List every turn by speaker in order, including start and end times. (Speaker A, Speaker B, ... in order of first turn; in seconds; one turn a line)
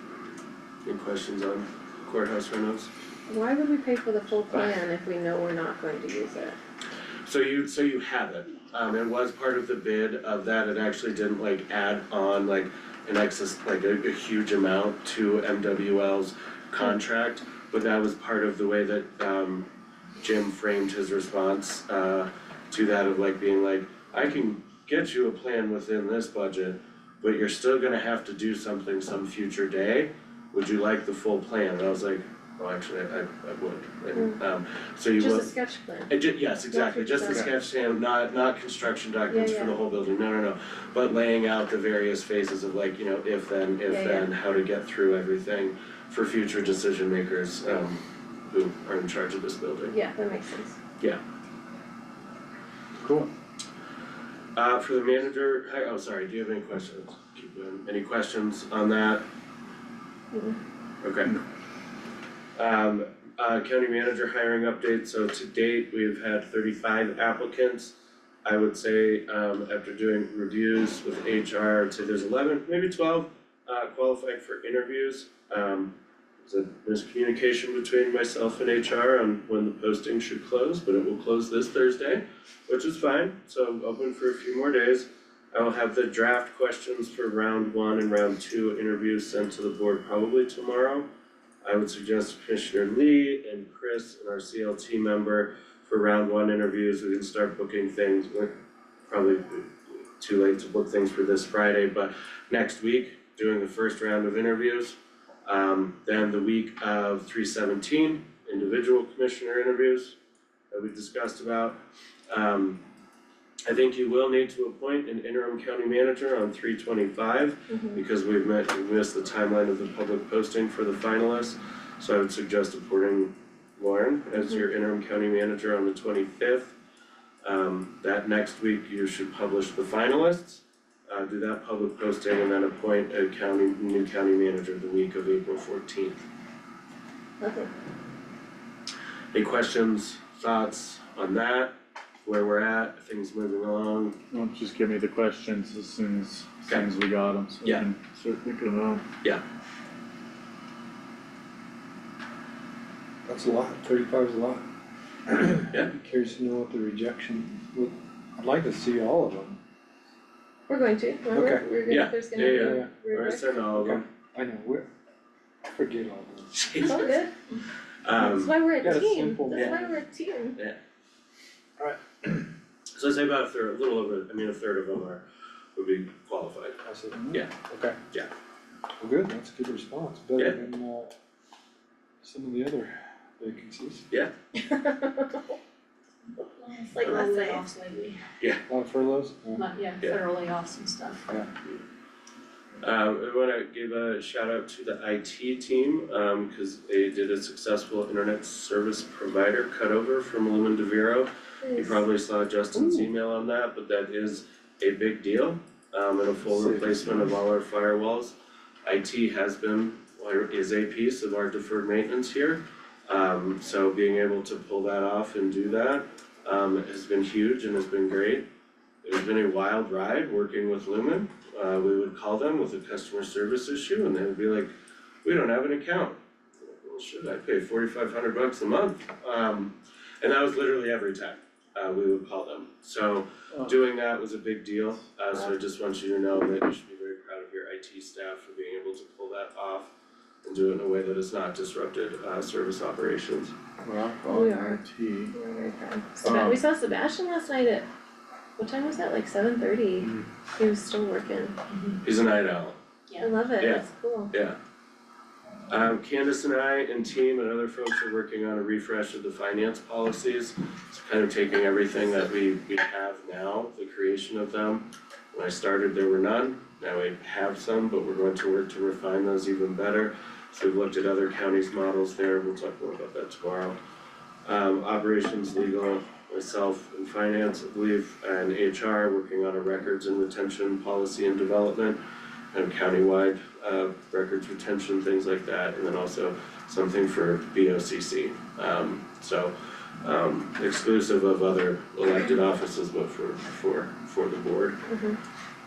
Speaker A: 0.8-2.9
Speaker B: 3.3-6.6
Speaker A: 7.2-19.7
Speaker A: 20.2-35.6
Speaker B: 35.2-36.1
Speaker A: 36.1-50.0
Speaker B: 36.7-37.5
Speaker B: 39.3-39.7
Speaker B: 43.9-44.3
Speaker B: 49.9-50.8
Speaker C: 53.0-53.3
Speaker A: 54.5-59.2
Speaker B: 60.3-60.6
Speaker A: 61.0-61.4
Speaker A: 62.6-91.1
Speaker A: 91.6-98.6
Speaker A: 99.1-110.2
Speaker A: 110.7-111.8
Speaker A: 112.3-112.8
Speaker A: 113.7-126.8
Speaker B: 117.7-118.0
Speaker A: 127.4-136.2
Speaker B: 137.4-137.7
Speaker A: 139.3-141.7
Speaker A: 142.3-144.2
Speaker C: 144.3-149.0
Speaker D: 153.3-154.6
Speaker D: 155.3-159.6
Speaker B: 160.7-163.4
Speaker D: 161.3-161.8
Speaker A: 161.9-164.0
Speaker D: 162.3-163.1
Speaker D: 163.6-164.9
Speaker D: 165.7-166.6
Speaker A: 166.5-167.2
Speaker B: 166.8-167.3
Speaker A: 168.0-168.6
Speaker B: 168.2-170.6
Speaker D: 168.8-170.0
Speaker A: 169.5-169.8
Speaker D: 171.8-172.4
Speaker A: 173.0-175.2
Speaker A: 175.8-176.8
Speaker D: 176.8-178.0
Speaker D: 179.0-181.2
Speaker D: 182.2-184.1
Speaker B: 184.6-185.5
Speaker E: 186.6-188.2
Speaker B: 186.9-187.6
Speaker D: 188.7-189.7
Speaker E: 189.6-191.2
Speaker A: 192.8-218.5
Speaker D: 202.8-203.1
Speaker D: 206.6-206.9
Speaker A: 219.0-224.7
Speaker A: 225.2-226.2
Speaker A: 226.7-239.9
Speaker A: 240.4-243.6
Speaker C: 243.8-245.3
Speaker B: 244.3-244.8
Speaker B: 245.3-247.9
Speaker C: 246.2-246.6
Speaker B: 248.6-251.6
Speaker A: 252.0-252.8
Speaker B: 253.2-254.3
Speaker A: 253.6-254.6
Speaker A: 255.7-273.8
Speaker A: 274.4-282.0
Speaker A: 282.5-294.8
Speaker B: 294.9-295.2